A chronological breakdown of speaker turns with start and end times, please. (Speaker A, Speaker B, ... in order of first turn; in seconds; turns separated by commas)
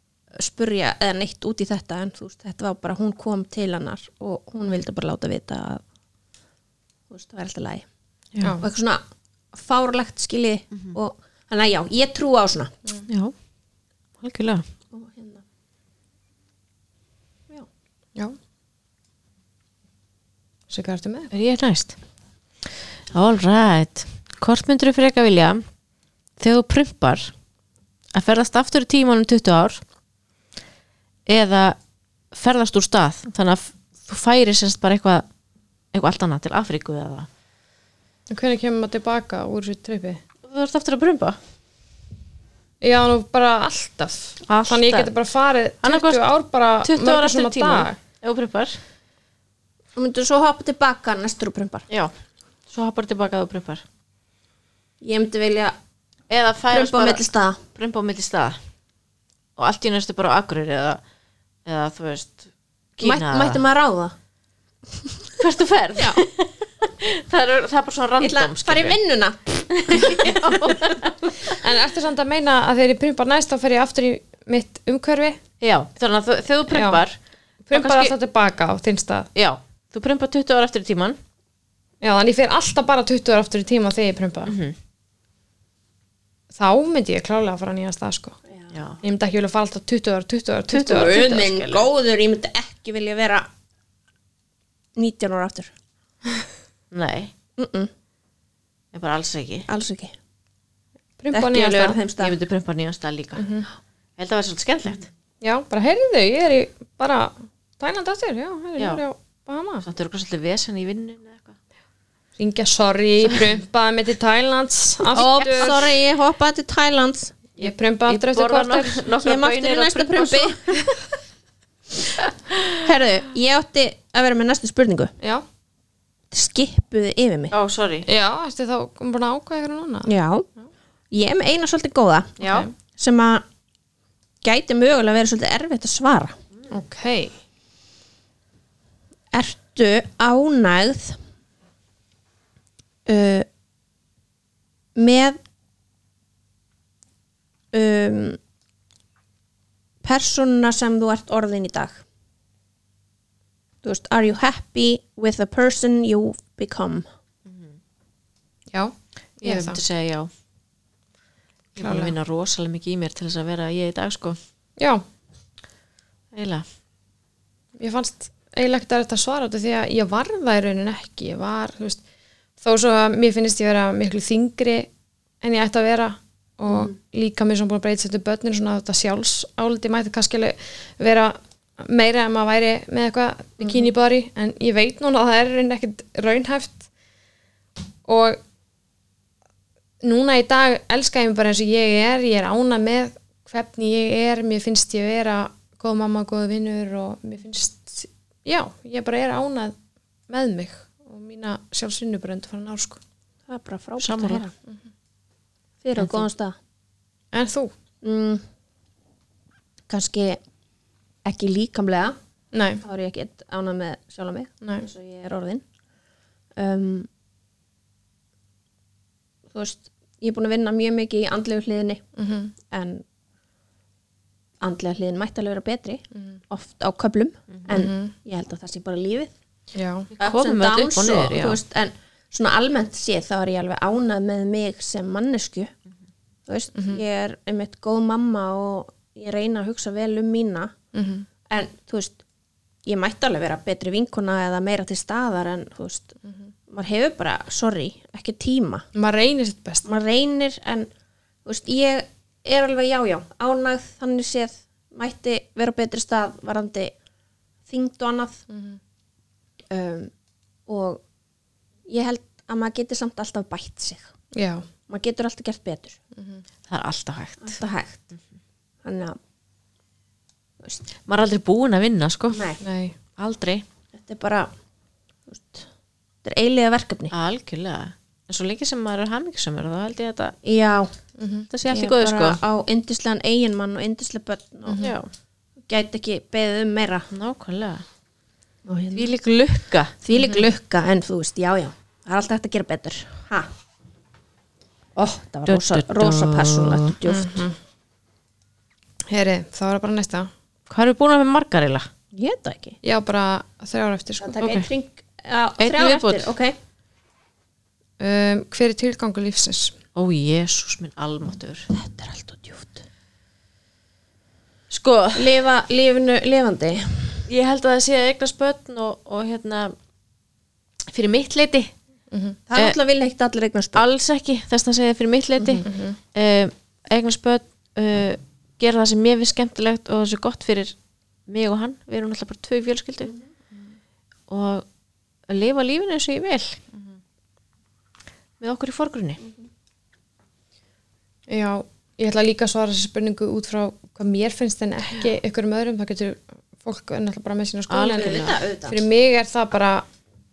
Speaker A: 0.3-5.8, Speaker A: 7.1-7.8, Speaker A: 8.6-12.7, Speaker B: 13.1-13.3, Speaker B: 14.2-14.6, Speaker A: 14.9-15.4, Speaker C: 20.7-21.3, Speaker B: 21.3-22.0, Speaker B: 23.1-25.6, Speaker B: 26.4-27.3, Speaker B: 28.1-29.8, Speaker B: 31.3-31.8, Speaker B: 32.3-35.2, Speaker B: 35.9-37.3, Speaker C: 38.3-40.2, Speaker B: 40.4-41.4, Speaker C: 42.8-48.0, Speaker A: 44.5-45.1, Speaker B: 45.8-46.2, Speaker B: 46.8-48.8, Speaker A: 49.9-51.9, Speaker B: 52.7-53.8, Speaker A: 55.0-55.8, Speaker B: 56.3-58.6, Speaker A: 56.7-57.6, Speaker B: 59.6-61.0, Speaker B: 61.6-63.6, Speaker A: 63.0-64.1, Speaker B: 65.4-69.0, Speaker A: 66.0-66.2, Speaker A: 68.2-70.9, Speaker B: 69.7-71.5, Speaker C: 71.5-75.4, Speaker B: 75.6-77.2, Speaker C: 76.7-77.0, Speaker C: 77.7-79.3, Speaker B: 77.7-78.1, Speaker B: 79.3-81.2, Speaker C: 82.0-84.5, Speaker B: 84.5-84.8, Speaker C: 86.5-88.4, Speaker B: 88.7-89.0, Speaker C: 89.0-91.2, Speaker A: 90.7-93.5, Speaker B: 90.7-91.8, Speaker A: 95.0-95.7, Speaker B: 96.9-97.3, Speaker A: 97.6-97.9, Speaker B: 98.9-99.7, Speaker A: 99.7-100.1, Speaker C: 101.2-102.0, Speaker A: 101.3-102.3, Speaker B: 102.2-103.5, Speaker C: 103.3-103.7, Speaker B: 104.2-105.1, Speaker C: 105.4-109.8, Speaker B: 109.8-111.6, Speaker C: 112.4-115.9, Speaker B: 113.2-113.5, Speaker B: 115.0-115.8, Speaker A: 115.1-117.4, Speaker C: 117.6-119.0, Speaker B: 117.6-120.9, Speaker A: 119.2-120.9, Speaker B: 122.2-122.9, Speaker A: 122.8-125.1, Speaker A: 126.3-127.5, Speaker B: 127.5-128.1, Speaker C: 128.1-130.1, Speaker A: 130.0-130.4, Speaker A: 131.1-133.4, Speaker B: 132.4-132.7, Speaker C: 132.4-132.7, Speaker A: 134.4-136.3, Speaker C: 136.7-137.3, Speaker A: 139.3-141.2, Speaker A: 143.1-143.5, Speaker A: 144.9-145.4, Speaker A: 147.7-148.4, Speaker A: 150.0-152.0, Speaker A: 153.8-157.1, Speaker B: 157.4-157.8, Speaker C: 158.7-159.8, Speaker B: 159.4-160.3, Speaker B: 161.8-164.4, Speaker C: 161.8-162.1, Speaker C: 164.8-165.0, Speaker B: 166.3-166.6, Speaker C: 167.8-172.0, Speaker C: 172.6-174.9, Speaker C: 175.4-186.8, Speaker C: 188.1-188.4, Speaker C: 190.0-199.7, Speaker C: 200.3-203.0, Speaker A: 203.5-204.5, Speaker B: 204.0-204.4, Speaker A: 205.8-206.6, Speaker B: 206.0-206.3, Speaker C: 207.3-207.7, Speaker A: 208.0-208.4, Speaker A: 209.9-210.4, Speaker A: 211.2-212.2, Speaker C: 212.5-212.8, Speaker A: 212.8-215.6, Speaker A: 216.6-217.1, Speaker A: 219.5-222.0, Speaker C: 222.2-222.5, Speaker A: 222.7-223.0, Speaker A: 224.6-229.3, Speaker C: 227.7-228.1, Speaker C: 229.7-230.1, Speaker B: 230.2-231.6, Speaker A: 230.2-235.7, Speaker A: 236.5-240.7, Speaker C: 240.9-241.2, Speaker A: 241.5-242.2, Speaker A: 242.8-246.2, Speaker A: 246.7-248.9, Speaker C: 248.9-249.9, Speaker A: 249.8-250.9, Speaker A: 251.4-256.9, Speaker A: 257.7-258.4, Speaker C: 258.5-258.8, Speaker A: 259.7-260.1, Speaker A: 260.7-261.0, Speaker A: 261.9-264.1, Speaker C: 264.3-264.6, Speaker A: 264.9-266.0, Speaker C: 266.1-266.4, Speaker B: 266.7-267.6, Speaker A: 267.4-268.1, Speaker A: 268.8-269.2, Speaker B: 271.0-272.4, Speaker A: 272.3-272.6, Speaker C: 272.6-272.9, Speaker B: 273.2-273.6, Speaker A: 273.9-274.5, Speaker A: 275.3-275.7, Speaker A: 276.2-277.1, Speaker B: 277.1-280.4, Speaker A: 280.4-280.9, Speaker C: 281.2-281.5, Speaker B: 281.5-282.4, Speaker A: 281.7-284.9, Speaker C: 284.7-284.9, Speaker B: 284.8-285.1, Speaker A: 285.7-287.1, Speaker B: 287.1-287.8, Speaker A: 288.6-289.1, Speaker B: 288.9-289.9, Speaker A: 290.0-293.5, Speaker C: 290.1-290.5, Speaker A: 295.0-297.4, Speaker B: 295.5-296.9, Speaker C: 297.0-297.6, Speaker C: 299.1-300.3, Speaker B: 300.7-301.9, Speaker A: 302.1-302.8, Speaker C: 302.8-304.4, Speaker A: 304.2-306.6, Speaker B: 304.4-304.7, Speaker B: 305.6-306.3, Speaker C: 308.0-309.8, Speaker B: 309.9-311.7, Speaker A: 311.7-312.8, Speaker B: 314.7-315.4, Speaker A: 315.1-317.3, Speaker B: 317.3-319.7, Speaker B: 320.9-321.7, Speaker C: 322.1-322.4, Speaker A: 322.5-323.8, Speaker B: 323.7-330.7, Speaker C: 325.6-326.0, Speaker B: 331.3-333.1, Speaker B: 334.3-334.6, Speaker B: 335.3-336.6, Speaker B: 338.4-339.2, Speaker C: 341.3-349.8, Speaker B: 347.7-348.4, Speaker A: 347.8-348.8